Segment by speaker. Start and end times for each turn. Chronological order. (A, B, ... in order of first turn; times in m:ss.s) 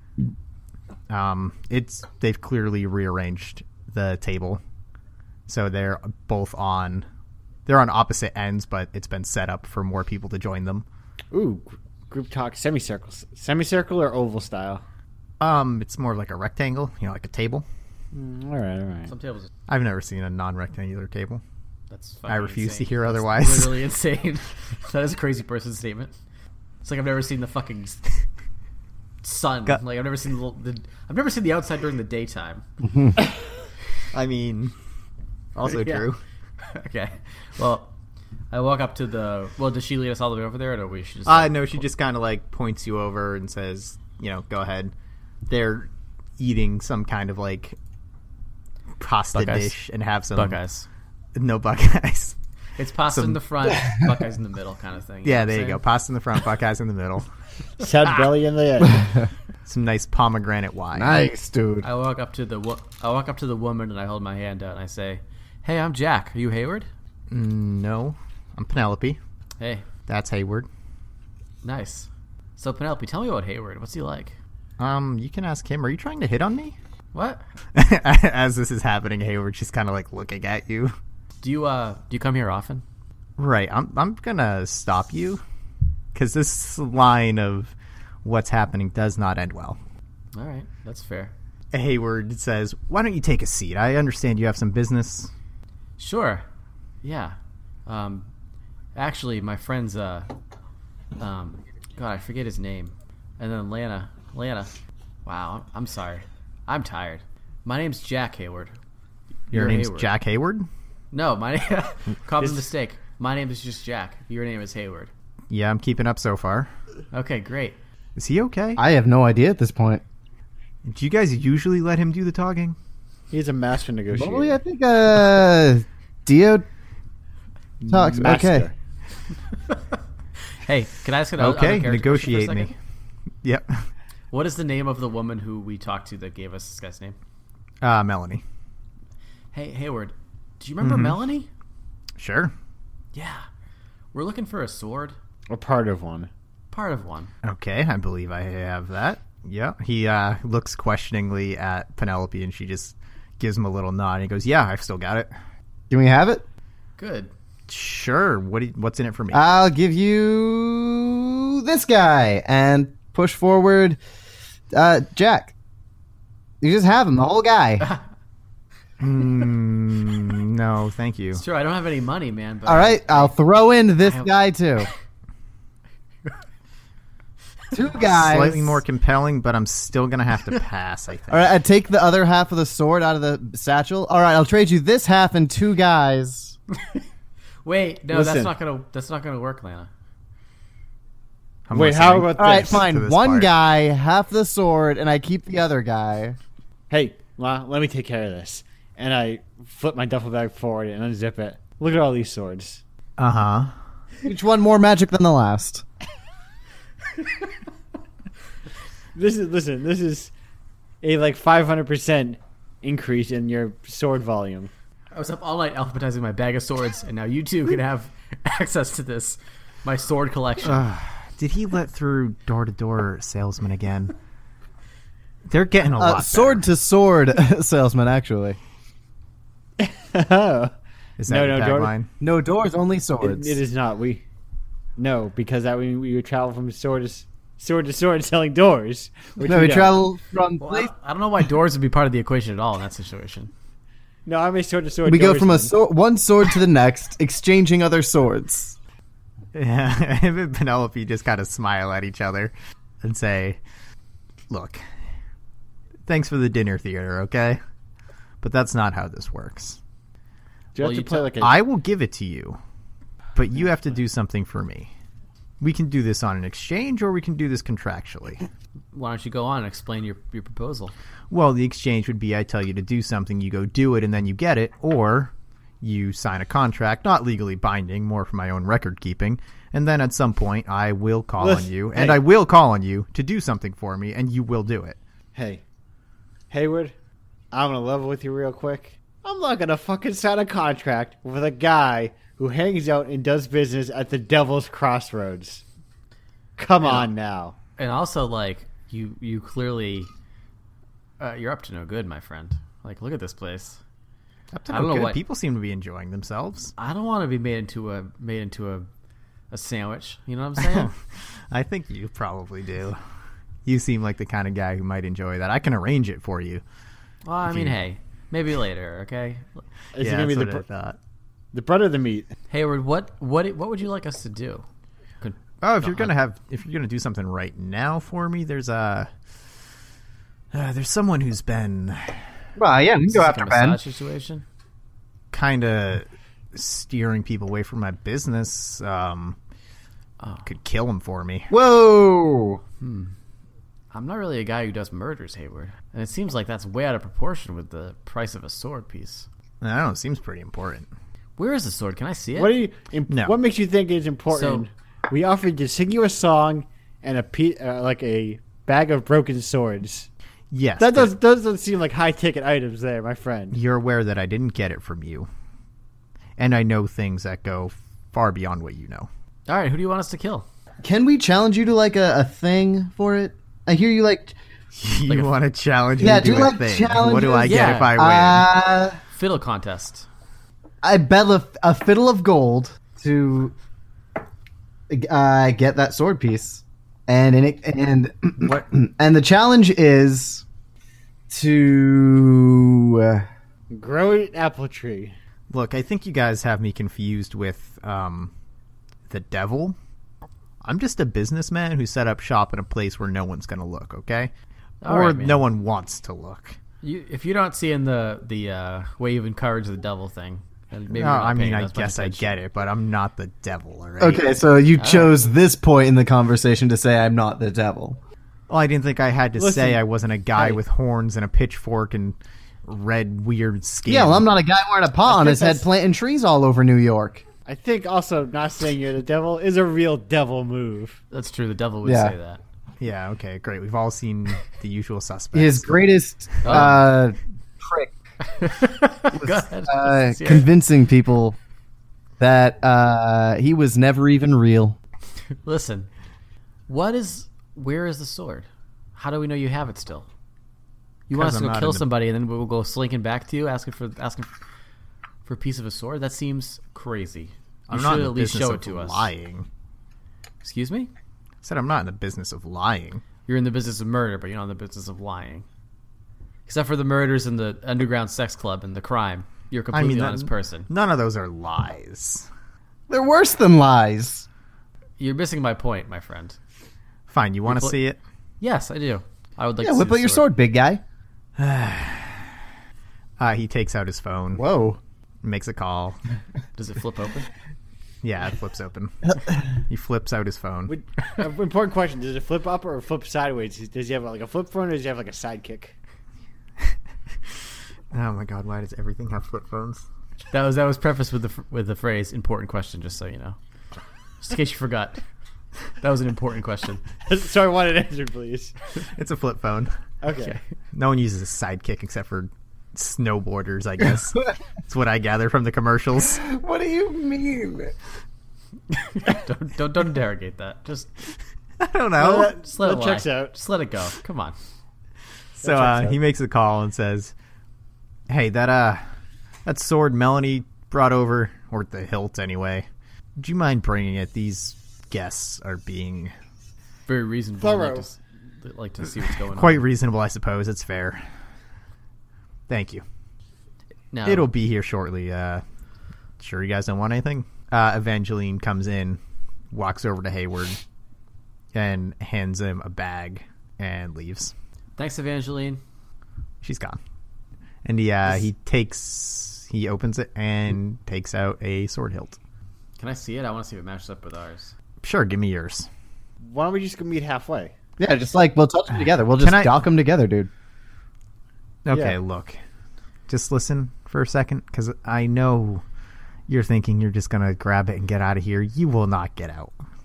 0:01.1-0:04.6 A
0:05.5-0:07.0 A
0:07.7-0:10.8 A
0:11.3-0:14.8 B
0:15.4-0:17.6 A
0:18.1-0:19.1 B
0:19.1-0:19.5 C
0:19.7-0:21.4 A
0:21.9-0:26.2 C
0:22.3-0:23.8 A
0:26.8-0:28.1 C
0:29.2-0:32.7 C
0:32.8-0:33.2 D
0:34.1-0:34.8 A
0:35.6-0:36.2 A
0:36.7-0:37.9 C
0:38.5-0:41.8 C
0:41.3-0:44.9 A
0:45.5-0:47.8 A
0:49.0-0:50.6 A
0:49.3-0:49.8 C
0:50.4-0:50.9 C
0:51.4-0:52.4 A
0:52.8-0:55.8 C
0:53.1-0:53.4 A
0:55.2-0:57.2 A
0:57.8-0:59.1 B
0:59.7-1:01.2 A
1:01.0-1:01.9 D
1:01.8-1:06.9 C
1:07.3-1:09.2 A
1:09.6-1:09.9 C
1:10.1-1:10.7 A
1:11.6-1:14.4 C
1:14.8-1:16.8 A
1:17.1-1:17.4 C
1:17.8-1:20.9 A
1:21.4-1:22.8 C
1:23.4-1:25.4 A
1:26.1-1:29.8 A
1:30.4-1:31.3 C
1:31.7-1:35.3 A
1:36.0-1:36.5 C
1:37.0-1:38.3 C
1:39.0-1:40.3 C
1:41.2-1:44.7 C
1:45.2-1:48.8 C
1:49.5-1:50.1 C
1:49.5-1:50.7 A
1:51.1-1:55.1 C
1:55.5-1:56.7 A
1:57.1-1:57.8 C
1:58.2-1:58.8 A
1:58.8-2:00.0 D
2:00.8-2:02.8 A
2:03.3-2:04.6 B
2:04.1-2:06.7 D
2:07.9-2:08.7 D
2:07.9-2:08.7 B
2:10.6-2:12.7 C
2:11.4-2:12.7 A
2:13.4-2:13.8 A
2:14.3-2:17.2 C
2:17.8-2:18.4 A
2:19.5-2:21.5 C
2:20.8-2:21.2 A
2:22.2-2:22.5 A
2:23.1-2:23.5 C
2:24.1-2:25.2 C
2:25.5-2:26.3 B
2:26.7-2:27.3 C
2:27.4-2:35.3 A
2:35.9-2:36.4 D
2:37.0-2:37.3 C
2:37.7-2:39.5 A
2:39.3-2:44.0 D
2:44.7-2:45.5 D
2:46.6-2:47.9 D
2:49.0-2:51.4 A
2:51.3-2:53.4 C
2:52.7-2:54.9 D
2:54.0-2:54.3 C
2:57.7-2:58.8 D
2:58.0-3:01.5 A
3:01.3-3:06.6 D
3:07.6-3:09.9 C
3:08.1-3:08.5 B
3:11.7-3:13.5 A
3:11.7-3:12.8 B
3:12.4-3:16.4 D
3:16.9-3:22.8 B
3:23.2-3:23.7 A
3:24.2-3:25.8 D
3:29.2-3:30.3 B
3:31.0-3:34.7 B
3:35.1-3:40.8 C
3:40.6-3:44.1 A
3:45.5-3:46.6 A
3:46.0-3:48.6 D
3:49.8-3:50.7 B
3:51.2-3:52.1 A
3:51.3-3:51.9 B
3:52.2-3:53.6 D
3:53.2-3:54.2 B
3:55.0-4:00.0 B
3:59.5-4:00.9 D
4:00.6-4:03.5 C
4:04.3-4:05.7 B
4:05.1-4:08.8 D
4:09.5-4:13.6 A
4:14.5-4:14.8 A
4:16.1-4:17.6 A
4:18.4-4:19.8 A
4:20.8-4:21.6 B
4:20.8-4:21.4 C
4:21.4-4:22.6 A
4:23.4-4:24.9 A
4:25.6-4:28.4 A
4:28.9-4:30.9 C
4:31.3-4:45.0 A
4:41.4-4:42.2 B
4:45.4-4:45.6 B
4:46.5-4:46.9 B
4:47.5-4:55.6 B
4:56.6-4:57.6 B
4:57.8-5:00.1 C
5:01.2-5:03.8 C
5:04.5-5:06.7 A
5:04.7-5:05.2 C
5:06.8-5:08.9 C
5:09.5-5:10.9 C
5:10.6-5:11.0 A
5:11.5-5:13.0 A
5:13.7-5:16.6 A
5:17.2-5:19.6 C
5:17.4-5:17.8 A
5:20.0-5:20.6 B
5:20.0-5:21.0 A
5:21.5-5:22.3 B
5:22.5-5:24.7 C
5:25.2-5:26.1 C
5:25.6-5:29.1 A
5:30.5-5:32.3 A
5:32.6-5:33.8 D
5:33.1-5:34.4 C
5:35.3-5:39.4 A
5:40.2-5:40.5 C
5:40.4-5:41.5 A
5:41.5-5:42.6 D
5:42.8-5:43.1 C
5:43.9-5:49.3 C
5:49.6-5:50.9 A
5:51.4-5:52.6 C
5:52.4-6:00.1 B
5:53.1-5:53.4 A
5:54.3-5:54.7 C
6:00.5-6:01.1 A
6:00.8-6:03.6 B
6:03.5-6:05.3 A
6:06.4-6:09.1 A
6:09.5-6:10.5 C
6:10.8-6:14.4 D
6:14.8-6:18.5 A
6:16.0-6:19.0 D
6:17.4-6:18.0 C
6:19.1-6:20.1 C
6:20.8-6:23.5 D
6:24.9-6:30.4 D
6:31.3-6:33.3 D
6:33.7-6:35.2 B
6:35.5-6:38.3 A
6:39.1-6:39.8 A
6:40.6-6:44.3 A
6:44.8-6:45.4 C
6:44.8-6:46.6 A
6:46.8-6:52.4 C
6:50.9-6:54.3 A
6:54.0-6:58.0 D
6:54.8-6:55.2 C
6:58.5-7:04.2 A
6:59.4-6:59.8 B
7:00.4-7:00.6 B
7:03.9-7:07.2 D
7:05.0-7:05.7 B
7:07.5-7:11.0 B
7:11.1-7:12.4 C
7:11.8-7:12.1 D
7:12.8-7:15.8 A
7:15.3-7:17.9 D
7:16.4-7:16.8 C
7:16.4-7:16.8 A
7:18.2-7:20.5 C
7:19.1-7:21.4 D
7:22.2-7:24.8 D
7:25.4-7:25.9 C
7:26.7-7:30.1 C
7:31.1-7:34.3 C
7:31.1-7:31.8 A
7:35.2-7:39.1 C
7:37.7-7:39.5 A
7:40.4-7:40.9 C
7:41.4-7:43.0 A
7:43.3-7:45.5 C
7:46.5-7:50.7 C
7:49.7-7:52.3 A
7:52.9-7:54.3 D
7:55.0-7:56.4 C
7:57.1-7:58.0 A
7:57.5-7:57.8 C
7:58.4-8:00.2 C
7:59.6-8:00.8 D
8:01.4-8:02.3 A
8:03.2-8:04.4 A
8:04.4-8:04.8 D
8:05.2-8:06.0 A
8:06.6-8:07.3 C
8:08.0-8:10.7 A
8:10.7-8:15.7 B
8:17.9-8:19.8 A
8:20.3-8:23.4 C
8:24.2-8:25.0 C
8:25.8-8:26.8 C
8:27.0-8:28.5 B
8:28.9-8:29.7 A
8:30.0-8:30.4 B
8:30.7-8:36.2 A
8:36.2-8:37.7 D
8:38.7-8:41.0 C
8:41.6-8:42.4 A
8:42.0-8:43.4 B
8:42.4-8:44.4 C
8:45.4-8:47.1 A
8:45.4-8:46.0 B
8:48.1-8:48.8 A
8:49.4-8:52.7 A
8:53.2-8:56.1 A
8:56.9-8:59.6 C
8:57.4-8:57.9 B
8:59.3-9:01.0 A
9:02.5-9:02.8 A
9:03.9-9:04.3 C
9:04.0-9:05.4 A
9:06.2-9:09.0 A
9:09.5-9:10.6 A
9:11.5-9:14.3 A
9:14.8-9:15.6 C
9:16.4-9:16.8 A
9:17.6-9:22.2 A
9:22.8-9:24.5 C
9:24.8-9:25.7 A
9:26.2-9:27.5 B
9:27.8-9:30.3 D
9:29.2-9:29.5 A
9:31.6-9:32.4 A
9:31.7-9:32.0 B
9:33.1-9:35.6 A
9:36.3-9:39.5 A